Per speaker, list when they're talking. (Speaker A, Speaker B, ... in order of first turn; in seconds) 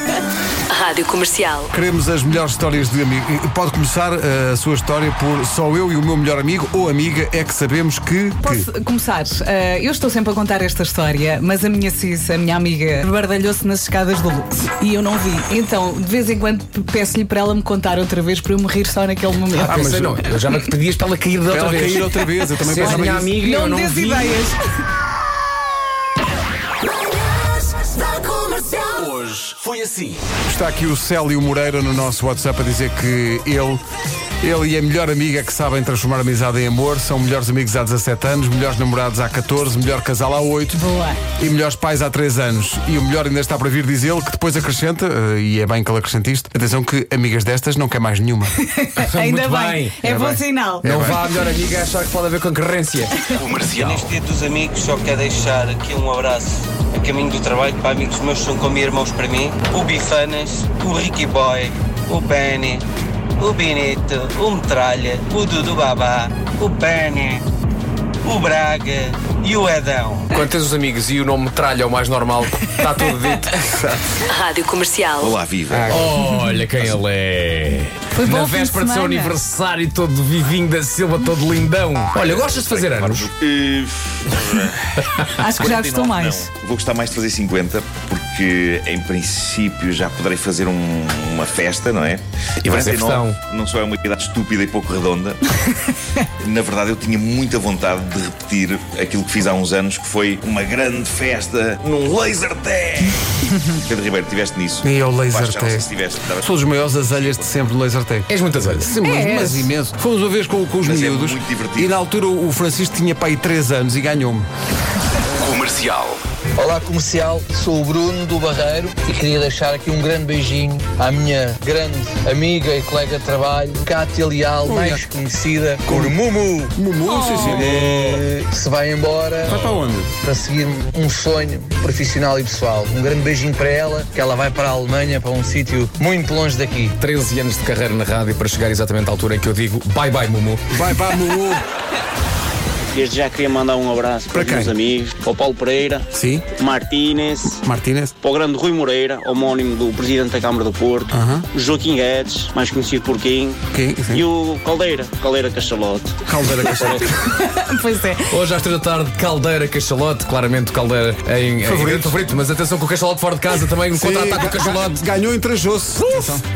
Speaker A: 0.7-1.7, 74.3-75.3
Speaker B: 1.7-8.7, 19.6-20.2, 21.5-23.3, 30.5-33.8, 34.4-40.8, 41.4-48.5, 50.0-51.2, 104.8-114.5, 124.6-125.1, 125.8-128.2, 129.4-130.1, 140.7-141.6, 144.3-144.7, 146.1-146.4, 147.5-148.1, 151.1-151.5, 153.7-154.3, 156.2-157.1, 161.6-162.2, 163.9-166.4
Speaker C: 8.4-19.8, 22.8-24.6, 40.8-41.2, 48.6-50.9, 78.1-79.4, 85.4-86.5, 109.0-109.7, 127.0-127.8, 157.2-158.4
Speaker D: 19.7-22.0, 22.6-24.4, 49.0-50.0, 50.8-54.1, 70.3-73.9, 75.7-83.3, 85.0-85.7, 92.6-93.4, 108.3-109.0, 137.0-140.7, 158.3-165.0
Speaker E: 28.9-30.2, 115.4-116.2
Speaker F: 53.3-62.8, 63.4-67.4, 68.2-70.3
Speaker G: 75.2-76.1, 82.2-84.8, 85.6-95.4, 96.4-103.2, 103.8-107.6, 110.8-112.0
Speaker H: 116.6-126.7, 127.3-136.9
Speaker I: 142.9-146.1, 146.6-147.6, 148.2-153.6, 154.1-156.2